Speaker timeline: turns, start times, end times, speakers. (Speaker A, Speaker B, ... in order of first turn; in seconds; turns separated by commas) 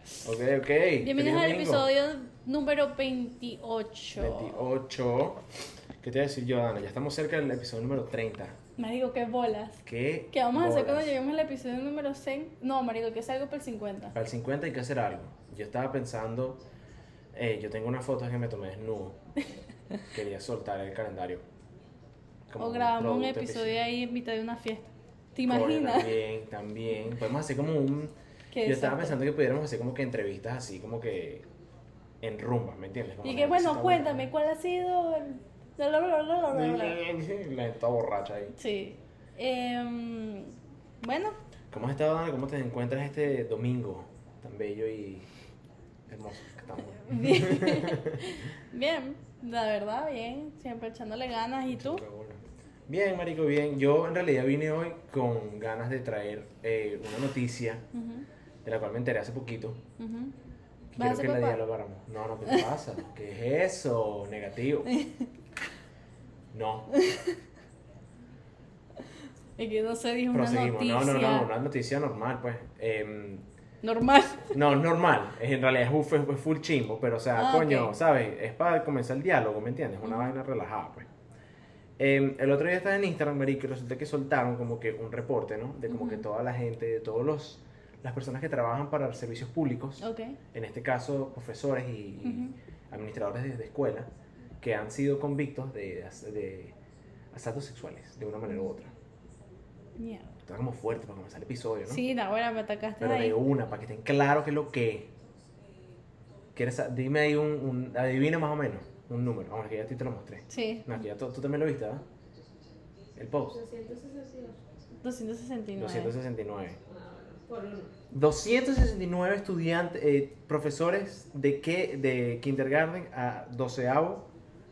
Speaker A: 0.2-1.9, Speaker B: 1.0-4.6, Speaker A: 4.1-5.4, Speaker A: 6.0-8.6, Speaker B: 8.8-14.2, Speaker A: 9.8-11.1, Speaker A: 14.1-16.6, Speaker A: 17.3-19.2, Speaker A: 20.1-21.4, Speaker A: 22.5-23.8, Speaker B: 22.6-26.2, Speaker A: 25.4-28.1, Speaker B: 28.5-29.2, Speaker A: 28.6-31.5, Speaker A: 32.2-34.3, Speaker B: 33.2-37.0, Speaker A: 36.5-38.5, Speaker B: 38.6-41.4, Speaker A: 41.7-45.3, Speaker A: 46.1-48.5, Speaker B: 47.0-52.0, Speaker A: 51.7-57.8, Speaker B: 57.9-58.3, Speaker A: 58.6-59.8, Speaker B: 60.0-60.3, Speaker A: 60.9-65.0, Speaker B: 61.0-61.6, Speaker B: 64.9-65.3, Speaker A: 66.5-66.9, Speaker B: 66.9-67.3, Speaker B: 69.6-71.5, Speaker A: 70.3-73.5, Speaker B: 73.8-74.6, Speaker A: 74.5-81.1, Speaker B: 77.4-77.9, Speaker B: 80.0-80.4, Speaker A: 82.0-96.8, Speaker B: 85.9-86.2, Speaker B: 90.0-90.4, Speaker B: 92.2-92.5, Speaker A: 97.3-98.9, Speaker B: 98.5-98.7, Speaker B: 100.0-100.4, Speaker A: 100.4-102.0, Speaker B: 101.9-103.4, Speaker A: 103.0-105.1, Speaker A: 106.5-112.0, Speaker B: 110.5-111.0, Speaker A: 113.2-113.6, Speaker C: 113.5-114.8, Speaker B: 115.0-116.2, Speaker A: 115.7-116.8, Speaker C: 116.9-117.9, Speaker A: 118.1-124.3